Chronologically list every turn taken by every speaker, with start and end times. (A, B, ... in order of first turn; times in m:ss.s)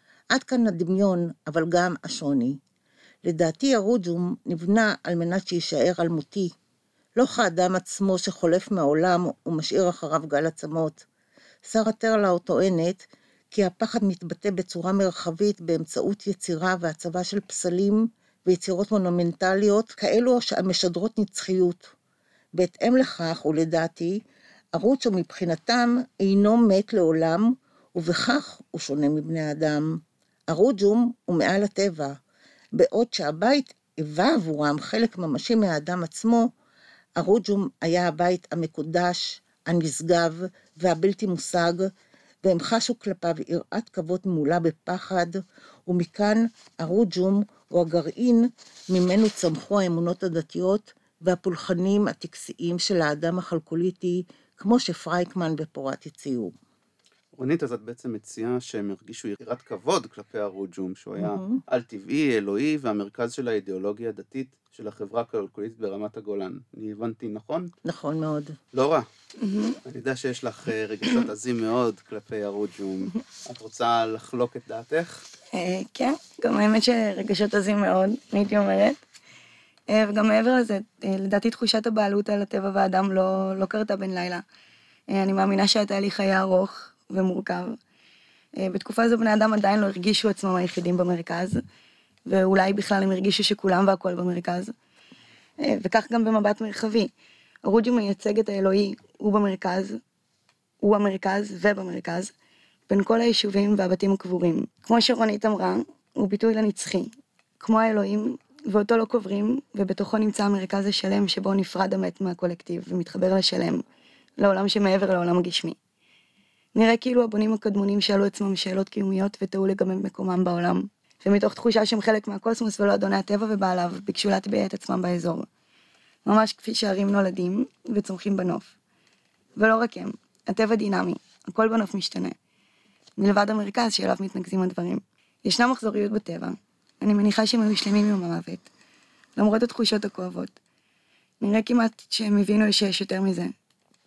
0:00.3-0:02.6 A
0:03.2-0:06.5 A
0:07.2-0:11.0 A
0:11.6-0:21.9 A
0:22.6-0:24.2 A
0:24.8-0:32.2 A
0:32.8-0:36.5 A
0:37.2-0:41.9 A
0:42.4-0:56.5 A
0:57.3-1:07.7 B
1:01.2-1:01.6 A
1:07.8-1:08.6 A
1:08.7-1:09.1 B
1:09.4-1:09.8 C
1:09.8-1:15.2 B
1:15.5-1:19.0 C
1:19.9-1:24.4 C
1:25.1-1:27.7 C
1:28.6-1:31.6 C
1:32.3-1:34.7 C
1:35.6-1:37.1 C
1:37.6-1:40.0 C
1:40.8-1:42.3 C
1:42.9-1:47.1 C
1:47.6-1:53.8 C
1:54.4-1:55.8 C
1:56.7-2:05.5 C
2:06.2-2:08.7 C
2:09.6-2:12.4 C
2:13.2-2:18.7 C
2:19.4-2:20.6 C
2:21.4-2:23.5 C